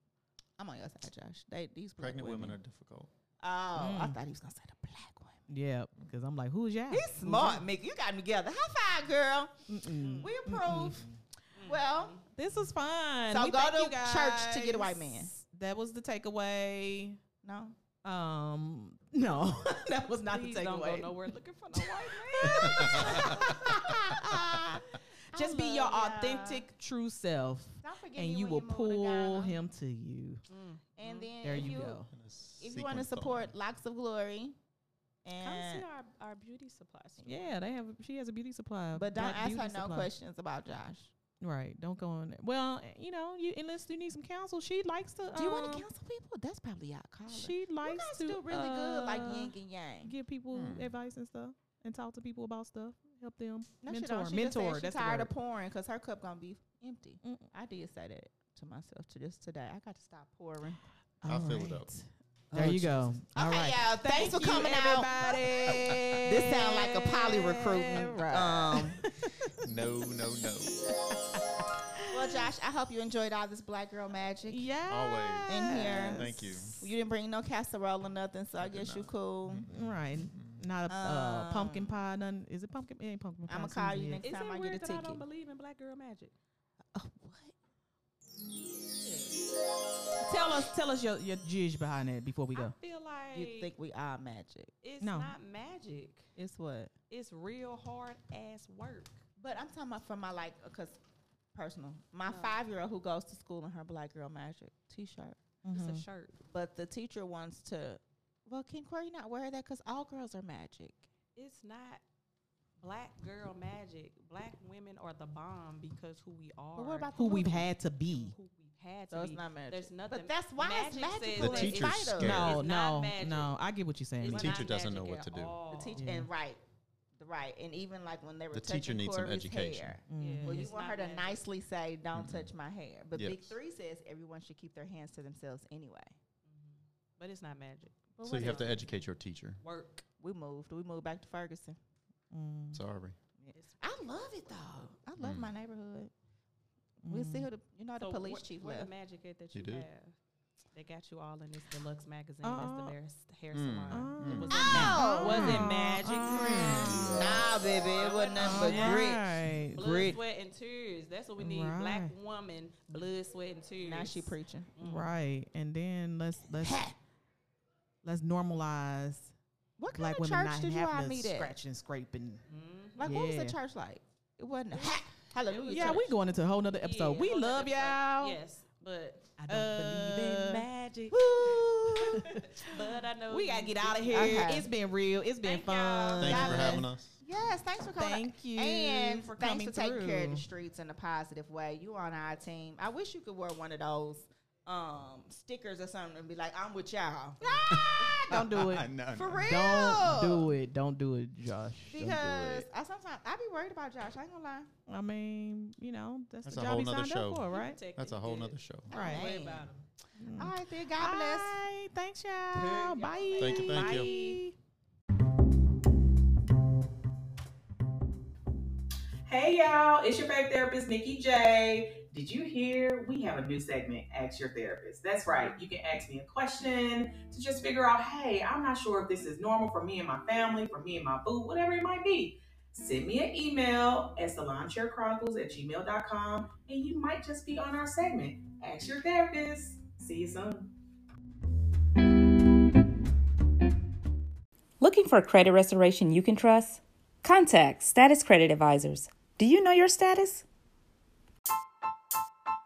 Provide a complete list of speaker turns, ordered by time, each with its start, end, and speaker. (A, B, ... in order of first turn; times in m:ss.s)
0:00.6-0:02.6 A
0:02.0-0:03.1 B
0:03.4-0:05.4 A
0:03.8-0:04.2 C
0:05.5-0:07.6 C
0:06.9-0:11.1 A
0:09.7-0:11.2 C
0:10.0-0:10.3 D
0:11.6-0:12.3 D
0:11.6-0:12.2 A
0:12.4-0:17.2 C
0:13.3-0:15.3 A
0:17.4-0:17.8 A
0:18.0-0:30.4 C
0:20.3-0:23.4 D
0:22.5-0:23.4 B
0:23.5-0:26.7 A
0:27.8-0:29.6 A
0:30.5-0:31.8 D
0:31.0-0:32.0 A
0:31.4-0:32.1 C
0:32.1-0:33.5 B
0:32.6-0:34.6 A
0:35.2-0:35.8 A
0:35.4-0:37.5 D
0:37.2-0:40.1 C
0:38.9-0:41.1 A
0:41.4-0:45.9 C
0:45.3-0:50.2 A
0:47.3-0:55.3 C
0:50.5-0:50.9 B
0:53.8-1:00.8 A
0:57.2-0:57.5 C
1:01.2-1:09.6 C
1:01.3-1:01.9 B
1:02.5-1:09.0 A
1:05.7-1:06.0 B
1:09.6-1:11.0 B
1:12.0-1:12.5 C
1:12.1-1:14.7 A
1:14.5-1:16.9 C
1:14.9-1:16.8 B
1:15.5-1:19.7 A
1:18.6-1:20.6 B
1:19.6-1:24.2 C
1:20.9-1:22.0 A
1:23.5-1:25.2 A
1:24.2-1:26.4 D
1:27.0-1:27.5 A
1:29.0-1:29.4 D
1:30.2-1:32.8 C
1:32.6-1:33.7 D
1:33.3-1:34.7 A
1:34.8-1:36.3 D
1:35.0-1:35.4 C
1:36.4-1:36.9 A
1:37.1-1:39.2 D
1:39.4-1:41.0 A
1:41.5-1:45.4 A
1:42.3-1:42.6 D
1:45.6-1:46.0 C
1:45.7-1:46.4 D
1:46.5-1:51.1 A
1:51.4-1:52.0 D
1:52.8-1:57.1 D
1:56.8-1:57.7 A
1:57.2-1:58.3 C
1:58.1-2:03.5 D
1:59.1-2:02.4 A
2:01.4-2:02.6 B
2:02.2-2:04.6 C
2:04.2-2:06.0 D
2:04.2-2:05.6 B
2:05.7-2:06.6 A
2:06.0-2:06.3 C
2:07.2-2:16.2 A
2:08.5-2:10.0 B
2:10.1-2:10.7 C
2:10.2-2:11.4 D
2:12.2-2:12.5 B
2:13.1-2:13.6 B
2:16.5-2:18.9 D
2:18.2-2:18.8 A
2:18.2-2:19.6 B
2:19.6-2:20.0 D
2:20.2-2:21.8 A
2:22.3-2:22.8 C
2:22.7-2:23.2 B
2:23.4-2:26.1 A
2:23.6-2:24.8 D
2:25.2-2:25.5 B
2:27.0-2:28.9 A
2:27.0-2:27.5 C
2:28.0-2:30.2 D
2:29.5-2:29.9 B
2:30.7-2:37.0 D
2:32.4-2:33.0 C
2:33.5-2:34.7 B
2:33.9-2:37.4 C
2:34.5-2:35.7 A
2:36.2-2:37.5 B
2:36.5-2:40.2 A
2:37.7-2:39.2 D
2:38.4-2:39.8 C
2:39.7-2:45.1 D
2:41.4-2:42.1 C
2:43.8-2:44.7 A
2:44.8-2:46.9 C
2:46.6-2:46.9 A
2:48.0-2:49.3 C
2:49.8-2:51.6 A
2:49.9-2:52.4 C
2:52.5-2:53.0 D
2:53.0-2:56.1 A
2:53.0-2:53.6 C
2:55.4-3:01.6 D
2:55.7-2:58.4 C
2:59.4-3:00.7 C
3:01.1-3:02.2 A
3:02.0-3:06.8 C
3:02.2-3:04.7 D
3:04.1-3:04.7 A
3:05.4-3:06.5 D
3:06.2-3:07.2 B
3:06.2-3:18.5 A
3:08.0-3:10.4 C
3:17.4-3:17.7 D
3:17.7-3:20.1 B
3:18.2-3:18.9 C
3:19.1-3:20.5 A
3:19.4-3:22.7 C
3:21.9-3:24.7 A
3:24.9-3:27.8 C
3:26.4-3:28.9 B
3:27.5-3:29.9 D
3:28.9-3:29.7 A
3:28.9-3:29.4 C
3:30.2-3:34.6 C
3:30.4-3:31.6 A
3:32.5-3:34.4 D
3:33.4-3:34.1 B
3:39.3-4:00.7 E
4:04.8-4:10.5 F